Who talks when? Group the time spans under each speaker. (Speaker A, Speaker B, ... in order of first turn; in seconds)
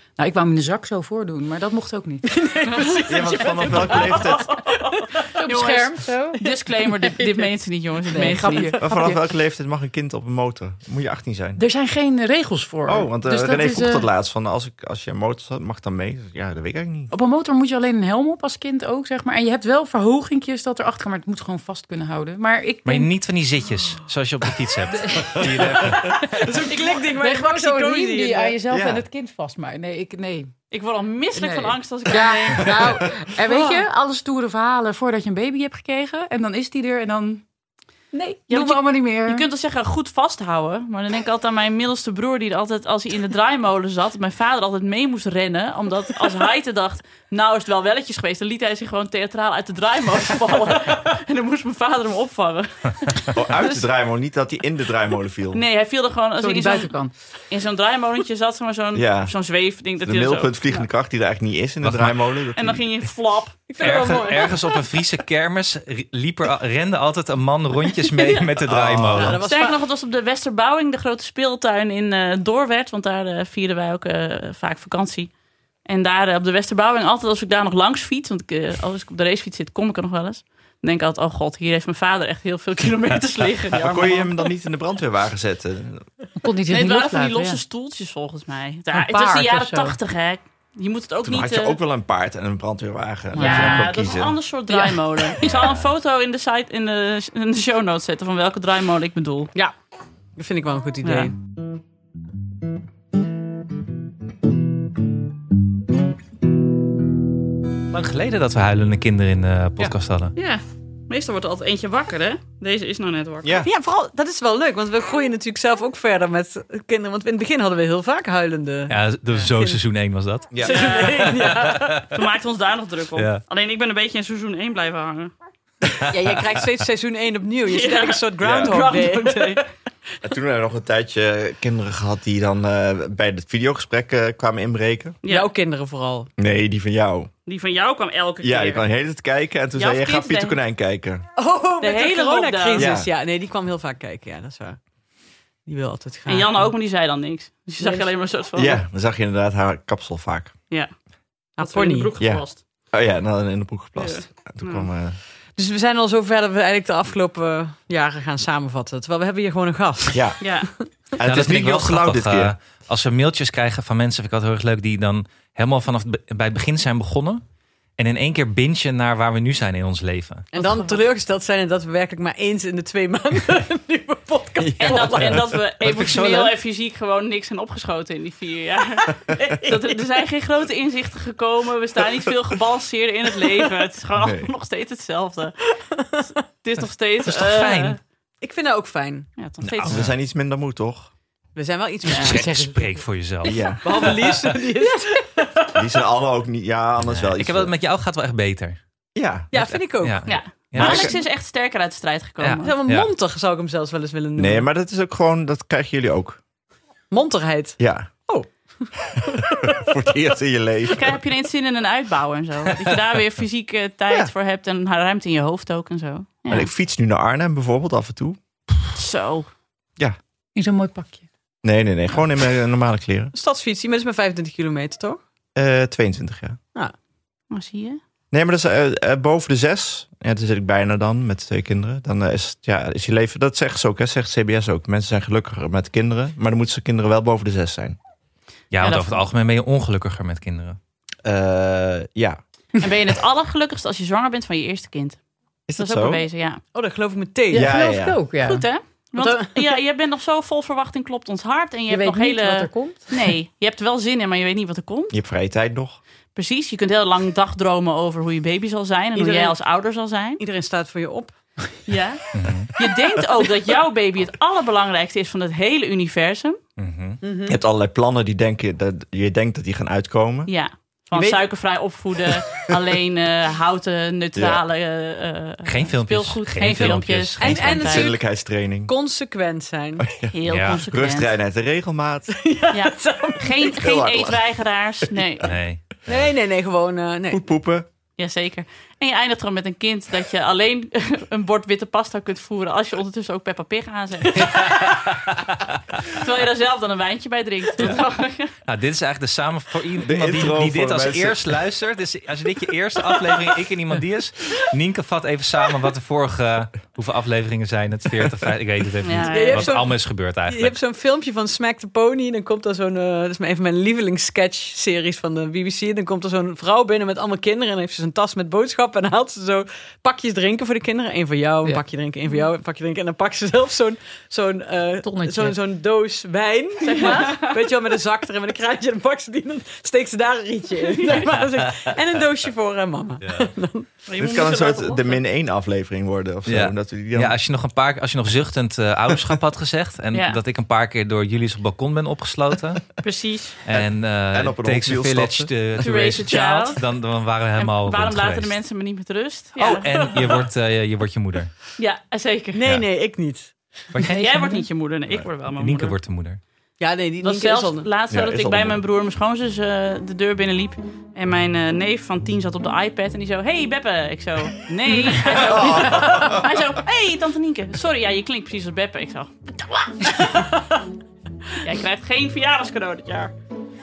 Speaker A: 0.2-2.3, 5.4-6.5, 8.1-9.2, 11.6-14.1, 17.1-23.1, 24.9-25.7, 26.5-30.6, 31.4-37.5, 38.1-39.5, 56.4-57.1, 86.4-87.6, 88.9-90.0, 93.3-94.0, 94.7-95.0, 170.6-170.9, 192.1-192.9, 220.6-221.3, 247.5-248.7, 251.9-253.1, 325.0-325.6, 326.9-327.4, 354.0-354.7
Speaker B: 2.2-4.5, 7.2-7.5, 8.2-9.0, 25.8-28.6, 63.7-64.8, 69.2-69.8, 100.3-101.3, 113.6-119.8, 120.6-121.9, 126.1-129.7, 135.3-136.3, 141.4-144.9, 145.6-146.7, 147.8-148.1, 151.6-152.2, 155.6-161.0, 170.5-175.4, 179.4-179.9, 188.4-189.3, 191.6-192.7, 193.8-195.8, 199.5-200.5, 202.6-204.7, 207.1-209.8, 223.3-225.3, 246.7-247.8, 249.2-249.7, 259.1-259.6, 260.4-261.5, 267.2-267.6, 271.1-271.6, 277.4-278.3, 278.9-280.1, 282.3-283.7, 286.1-287.4, 309.2-334.0, 349.6-350.4, 352.5-353.9, 356.8-357.9, 370.2-370.8
Speaker C: 2.8-8.8, 30.7-33.8, 38.5-53.7, 55.5-60.9, 62.5-64.1, 68.2-68.4, 69.4-84.3, 86.7-91.8, 93.3-99.5, 101.0-101.3, 110.4-113.6, 120.7-121.2, 122.1-125.3, 127.7-129.6, 135.2-135.5, 137.5-138.9, 139.8-140.6, 141.8-142.9, 146.3-148.8, 150.7-152.6, 154.0-154.9, 160.4-160.7, 174.8-188.0, 189.4-190.1, 200.2-202.8, 210.9-216.7, 218.9-219.5, 227.5-228.0, 238.8-239.3, 242.8-246.6, 248.4-255.2, 256.3-260.4, 261.9-266.6, 270.5-278.1, 280.3-281.3, 282.7-285.6, 288.2-294.9, 296.1-298.5, 309.0-309.8, 326.8-327.6, 330.9-331.3, 334.1-335.2, 340.1-340.4, 343.0-343.6, 345.8-347.0, 347.6-350.1, 351.8-352.6, 354.1-356.0, 357.2-369.4, 371.6-373.3
Speaker D: 3.1-4.7, 8.8-11.6, 12.9-17.1, 25.4-26.1, 28.7-29.0, 53.3-55.6, 58.9-59.4, 60.0-62.9, 68.7-69.4, 83.7-86.1, 91.2-94.4, 113.4-113.7, 120.5-121.1, 128.4-128.8, 130.2-135.2, 136.4-137.3, 138.4-141.3, 142.8-143.1, 148.5-150.6, 152.2-155.2, 160.1-160.4, 160.9-162.5, 174.6-175.2, 184.2-184.5, 189.8-191.1, 193.4-193.8, 195.8-197.8, 199.2-199.5, 200.8-201.1, 204.4-206.4, 207.8-208.2, 209.8-211.2, 216.5-218.9, 221.6-223.3, 225.6-226.6, 228.3-238.0, 241.2-242.8, 245.7-246.3, 247.5-248.2, 255.1-256.0, 267.5-270.5, 274.4-274.6, 277.7-278.9, 280.0-282.4, 283.7-284.4, 287.3-287.9, 300.0-301.4, 334.2-337.4, 343.7-345.5, 358.1-358.8, 365.4-366.3
Speaker E: 22.9-26.2, 61.8-62.3, 63.8-69.4, 107.9-110.3, 118.9-120.7, 121.3-122.0, 123.2-123.4, 161.2-167.4, 168.0-170.5, 175.3-176.6, 187.3-188.0, 189.7-190.1, 192.2-194.1, 197.0-198.8, 199.5-201.2, 202.4-203.1, 238.7-240.8, 262.3-262.7, 266.8-267.2, 275.6-277.8, 280.5-280.8, 285.4-286.3, 294.4-295.7, 297.8-310.8, 333.2-333.5, 336.5-342.9, 343.6-348.6, 349.8-351.6, 353.9-356.4